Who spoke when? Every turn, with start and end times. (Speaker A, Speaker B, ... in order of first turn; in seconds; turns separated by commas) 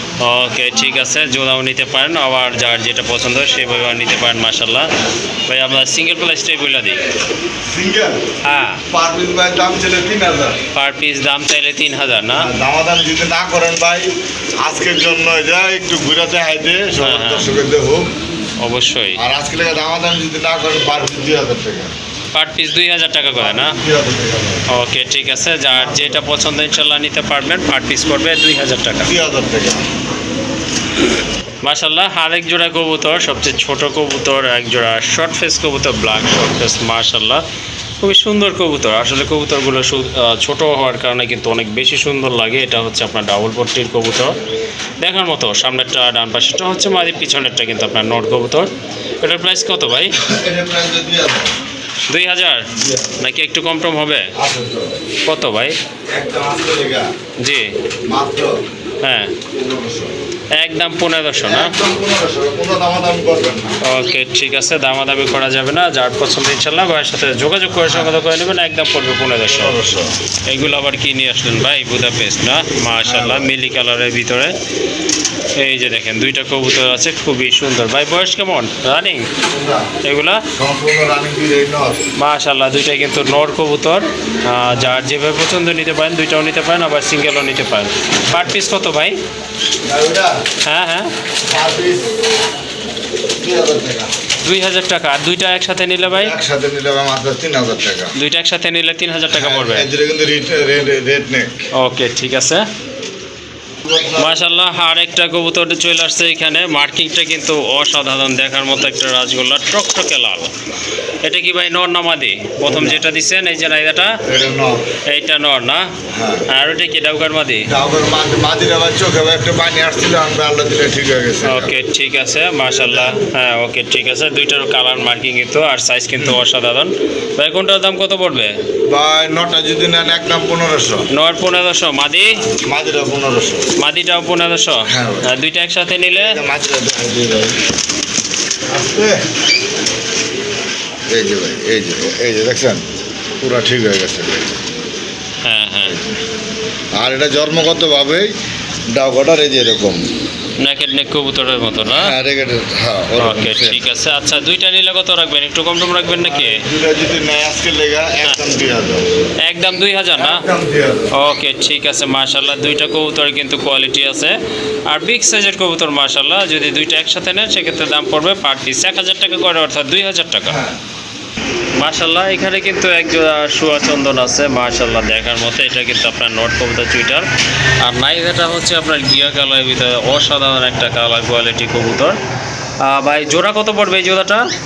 Speaker A: 0.2-4.9, Speaker A: 5.5-7.0, Speaker B: 7.7-8.2, Speaker A: 8.4-8.8, Speaker B: 8.9-10.6, Speaker A: 10.7-12.5, Speaker B: 12.4-18.1, Speaker A: 17.0-17.5, Speaker A: 18.6-19.2, Speaker B: 19.1-21.9, Speaker A: 22.3-23.8, Speaker B: 23.4-24.6, Speaker A: 24.7-29.1, Speaker B: 25.7-26.1, Speaker B: 29.0-29.9, Speaker A: 31.6-37.4, Speaker A: 38.0-44.4, Speaker A: 45.0-50.2, Speaker B: 50.2-51.5, Speaker A: 52.1-54.3, Speaker B: 52.7-53.2, Speaker B: 54.4-55.0, Speaker A: 55.2-55.8, Speaker B: 56.1-57.1, Speaker A: 57.4-57.7, Speaker B: 58.0-58.6, Speaker A: 59.0-59.4, Speaker B: 59.5-60.1, Speaker A: 60.5-61.8, Speaker B: 61.4-63.8, Speaker A: 63.8-69.8, Speaker B: 67.8-68.2, Speaker B: 69.5-70.2, Speaker A: 70.5-74.5, Speaker B: 73.0-73.5, Speaker A: 75.5-79.3, Speaker B: 79.5-79.9, Speaker A: 80.0-80.5, Speaker B: 80.5-82.0, Speaker A: 82.2-89.2, Speaker B: 89.8-90.4, Speaker A: 90.6-91.1, Speaker B: 91.5-92.2, Speaker B: 93.4-94.1, Speaker A: 94.4-96.3, Speaker B: 96.1-98.1, Speaker A: 98.2-99.9, Speaker B: 99.3-101.6, Speaker A: 101.8-102.7, Speaker B: 103.8-104.4, Speaker A: 104.2-110.5, Speaker A: 111.2-114.2, Speaker B: 112.7-113.0, Speaker B: 114.2-114.9, Speaker A: 115.0-115.9, Speaker B: 116.1-116.5, Speaker A: 116.5-117.7, Speaker B: 117.7-121.7, Speaker A: 121.4-128.5, Speaker B: 122.6-123.2, Speaker B: 128.9-131.1, Speaker A: 131.1-132.4, Speaker B: 132.4-133.7, Speaker A: 133.8-136.4, Speaker B: 134.9-135.3, Speaker B: 136.1-137.6, Speaker B: 138.7-139.2, Speaker B: 141.1-142.9, Speaker B: 143.4-144.7, Speaker A: 145.4-146.0, Speaker B: 145.8-146.2, Speaker B: 146.9-148.3, Speaker B: 148.9-150.1, Speaker A: 150.6-152.1, Speaker B: 151.9-153.8, Speaker A: 153.2-156.7, Speaker B: 156.2-159.1, Speaker A: 159.4-160.4, Speaker B: 160.2-161.1, Speaker A: 161.1-170.6, Speaker B: 170.5-170.8, Speaker A: 171.8-177.3, Speaker A: 177.8-182.2, Speaker A: 182.8-184.5